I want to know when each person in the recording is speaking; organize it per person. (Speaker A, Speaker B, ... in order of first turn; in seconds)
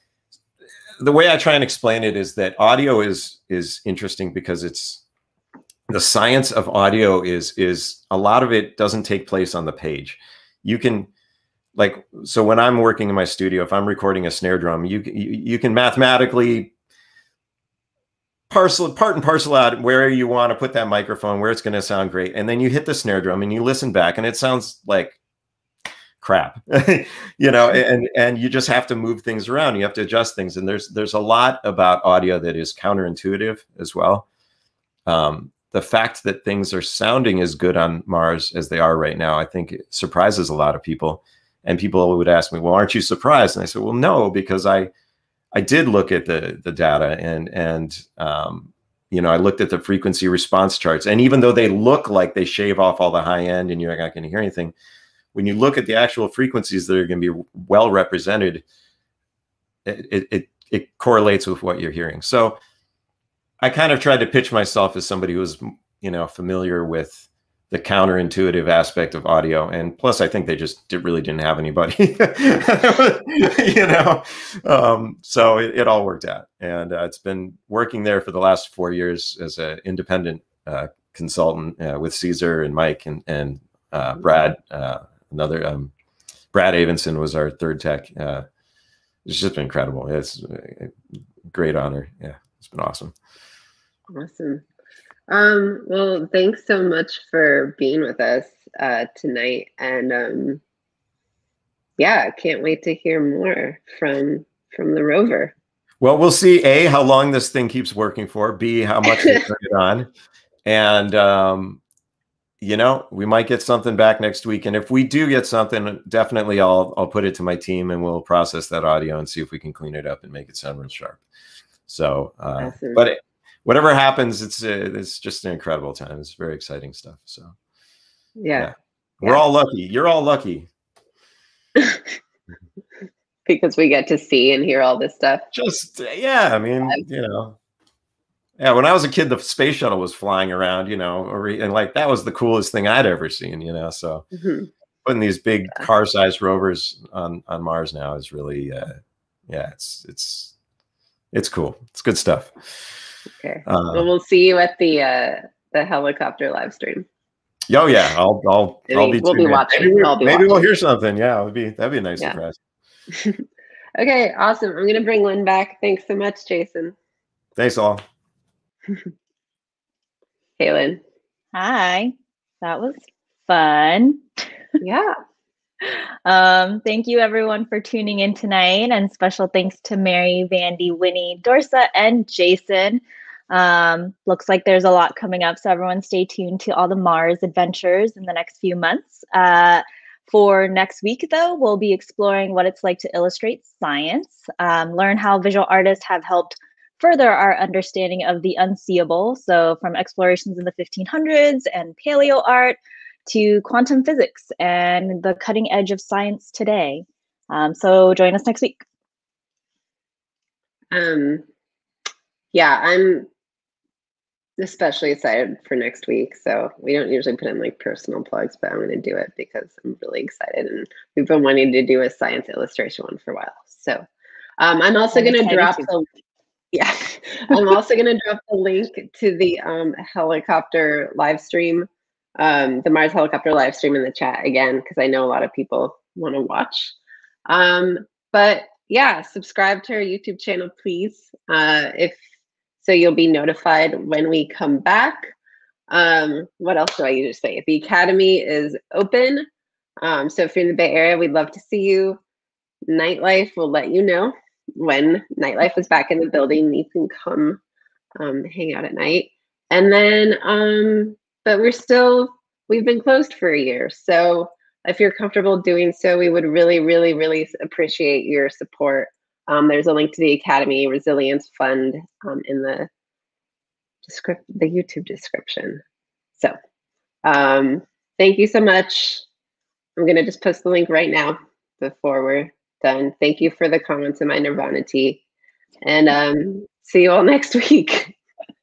Speaker A: 1.0-5.0, 5.9-11.1, 11.7-16.7, 18.5-25.2, 26.2-34.2, 35.0-44.9, 45.5-54.7, 55.3-58.6, 59.8-62.6, 63.6-85.9, 86.5-88.5, 89.2-91.0, 91.5-93.1, 106.0-110.1, 110.6-111.8, 112.6-121.2, 121.9-127.5, 128.6-130.7, 135.5-137.6, 138.6-144.2, 145.0-149.0, 149.5-150.5, 151.3-152.8, 153.6-154.1, 157.7-162.6, 167.6-168.0
Speaker B: 94.1-94.6, 95.3-100.6, 102.0-105.5, 109.0-109.3, 122.6-123.0, 128.4-128.7, 131.8-132.0, 133.4-135.4, 144.3-144.7, 153.4-157.1, 158.9-160.7, 163.1-163.4, 164.0-166.9, 170.6-171.0, 174.8-175.1, 210.9-211.4, 212.5-213.3, 214.6-224.0, 224.6-226.1, 226.7-236.9, 237.5-242.2, 242.8-245.3, 245.9-249.4, 250.0-252.2, 252.9-257.6, 258.2-272.9, 274.0-275.8, 277.2-279.2, 280.0-285.2, 285.8-288.1
Speaker C: 171.5-174.2, 175.8-208.8, 225.1-225.9